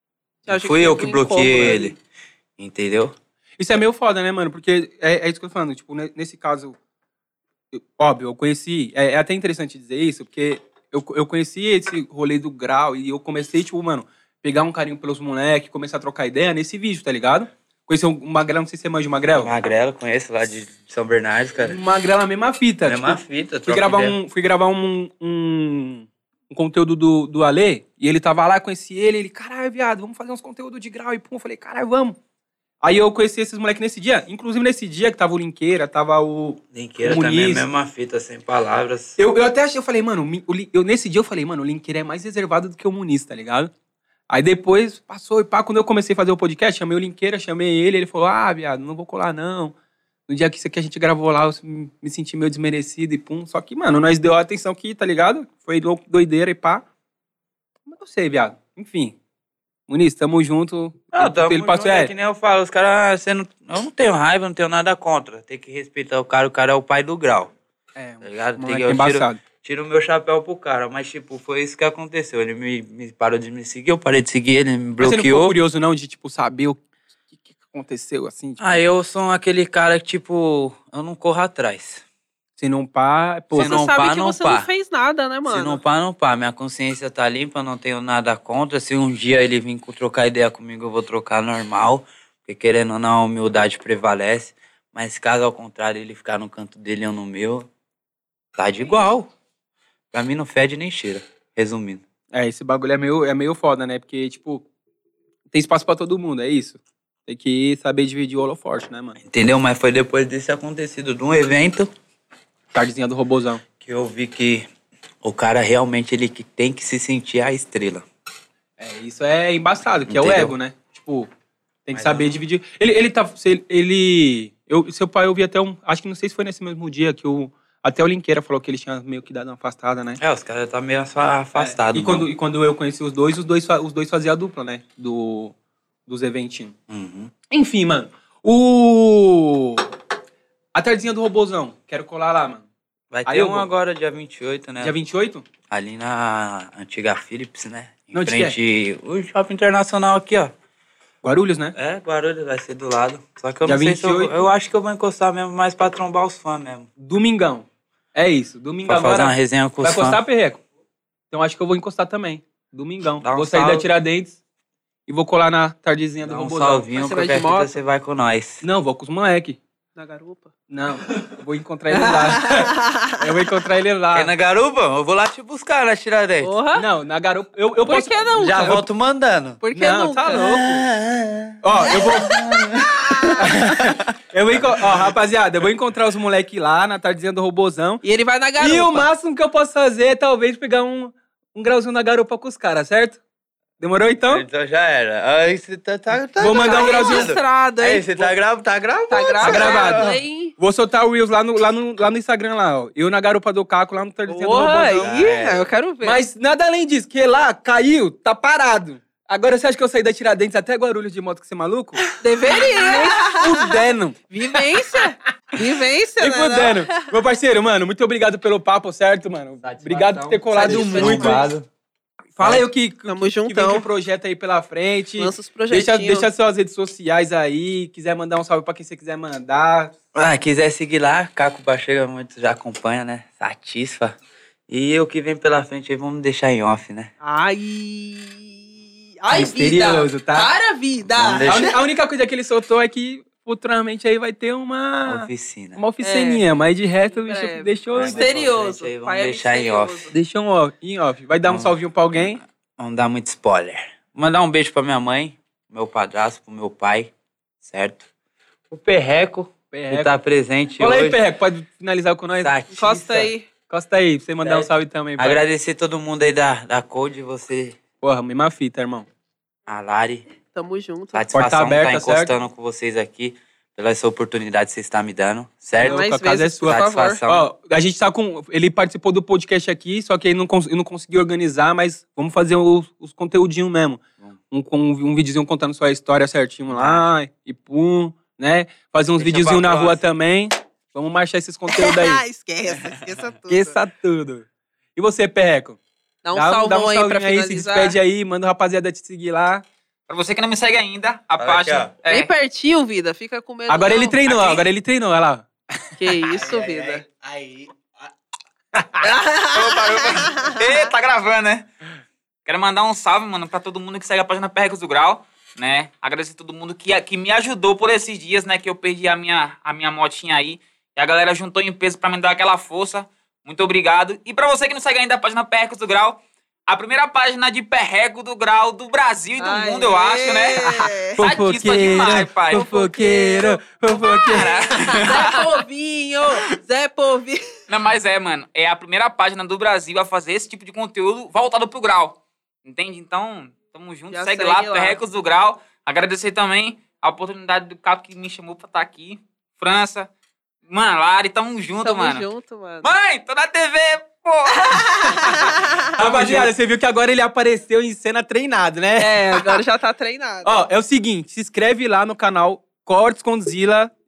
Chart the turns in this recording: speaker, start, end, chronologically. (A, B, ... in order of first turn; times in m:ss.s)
0:00.5-0:01.9 A
0:00.5-0:02.0 B
0:02.6-0:03.2 B
0:03.6-0:06.8 C
0:07.7-0:19.5 C
0:19.3-0:21.8 B
0:21.6-0:32.2 C
0:22.8-0:24.2 B
0:32.8-0:37.7 C
0:36.7-0:39.2 B
0:39.2-0:43.7 C
0:44.3-0:49.7 C
0:50.3-0:56.8 C
0:57.9-0:59.2 C
0:59.9-1:02.1 C
1:01.1-1:07.5 B
1:08.0-1:09.4 C
1:08.2-1:15.6 B
1:15.0-1:18.8 C
1:18.6-1:22.0 B
1:22.6-1:23.8 C
1:23.5-1:24.7 B
1:23.5-1:25.8 A
1:25.5-1:37.7 B
1:38.6-1:39.3 B
1:40.1-1:42.0 B
1:42.3-1:44.6 C
1:45.5-1:49.2 C
1:49.2-1:51.9 B
1:52.7-1:53.6 C
1:53.8-1:54.7 B
1:55.2-1:58.0 B
1:58.8-2:01.3 C
2:00.1-2:00.6 B
2:01.9-2:10.2 C
2:01.9-2:02.4 B
2:10.2-2:12.3 B
2:11.6-2:15.6 C
2:16.1-2:16.7 C
2:16.9-2:17.3 B
2:17.5-2:19.9 C
2:20.8-2:22.7 C
2:23.1-2:25.0 B
2:23.3-2:23.7 C
2:24.8-2:25.4 C
2:25.7-2:30.5 B
2:28.1-2:28.6 C
2:31.2-2:31.8 C
2:31.8-2:36.9 B
2:33.6-2:34.4 C
2:37.0-2:40.6 C
2:38.9-2:40.2 B
2:41.3-2:44.4 C
2:43.2-2:43.9 B
2:45.1-2:46.9 C
2:46.2-2:48.6 B
2:46.9-2:47.8 A
2:48.6-2:49.6 C
2:50.0-2:50.5 A
2:50.7-2:54.3 C
2:51.9-2:53.2 A
2:54.1-2:56.6 B
2:56.4-2:56.9 A
2:56.8-2:58.8 C
2:57.9-2:58.8 A
2:58.4-2:59.6 B
2:59.6-3:00.5 A
2:59.7-3:00.8 C
3:00.3-3:05.1 B
3:01.6-3:02.5 C
3:02.1-3:03.4 A
3:03.4-3:08.0 C
3:08.0-3:09.1 A
3:08.6-3:13.2 C
3:13.8-3:14.4 C
3:14.2-3:20.2 B
3:16.4-3:17.3 C
3:16.4-3:18.2 A
3:19.1-3:20.5 A
3:19.4-3:20.1 C
3:20.6-3:25.2 C
3:24.3-3:26.2 A
3:24.9-3:25.7 B
3:26.0-3:34.2 C
3:32.2-3:37.1 A
3:36.2-3:41.5 C
3:39.6-3:41.7 B
3:40.5-3:41.5 A
3:42.4-3:49.9 C
3:43.1-3:43.9 A
3:45.2-3:46.3 A
3:50.1-3:54.2 B
3:54.7-3:57.1 B
3:57.2-4:01.8 A
3:59.3-3:59.9 B
3:59.3-4:00.5 C
4:01.0-4:01.7 B
4:01.4-4:08.3 C
4:05.1-4:05.8 B
4:06.0-4:06.4 A
4:07.1-4:10.1 A
4:07.9-4:10.1 B
4:10.1-4:12.4 C
4:11.5-4:18.0 B
4:18.7-4:21.2 B
4:19.7-4:20.1 C
4:20.8-4:22.6 C
4:22.4-4:23.3 B
4:22.7-4:23.4 A
4:23.7-4:25.4 C
4:24.4-4:27.8 B
4:28.0-4:29.1 C
4:29.7-4:30.3 B
4:30.5-4:31.3 A
4:31.1-4:36.1 B
4:31.3-4:32.3 C
4:35.8-4:52.2 C
4:35.8-4:37.2 A
4:36.6-4:37.5 B
4:46.7-4:47.1 B
4:49.2-4:50.0 B
4:51.7-4:53.8 A
4:52.7-4:53.2 B
4:53.5-4:55.8 C
4:56.2-4:58.0 A
4:56.3-4:59.6 C
5:00.1-5:02.3 D
5:01.4-5:01.9 B
5:02.1-5:04.2 A
5:03.7-5:05.5 C
5:04.2-5:04.6 D
5:06.0-5:07.0 A
5:06.3-5:08.1 B
5:09.0-5:10.8 A
5:09.5-5:11.7 D
5:12.5-5:32.7 D
5:29.4-5:31.2 A
5:30.8-5:35.0 C
5:31.8-5:37.5 A
5:33.9-5:35.4 D
5:37.7-5:50.1 D
5:44.1-5:45.0 A
5:50.7-5:52.3 D
5:51.8-5:52.9 A
5:52.8-5:56.5 D
5:54.6-5:55.9 A
5:55.9-5:59.6 C
5:59.0-6:00.6 A
6:00.4-6:03.9 C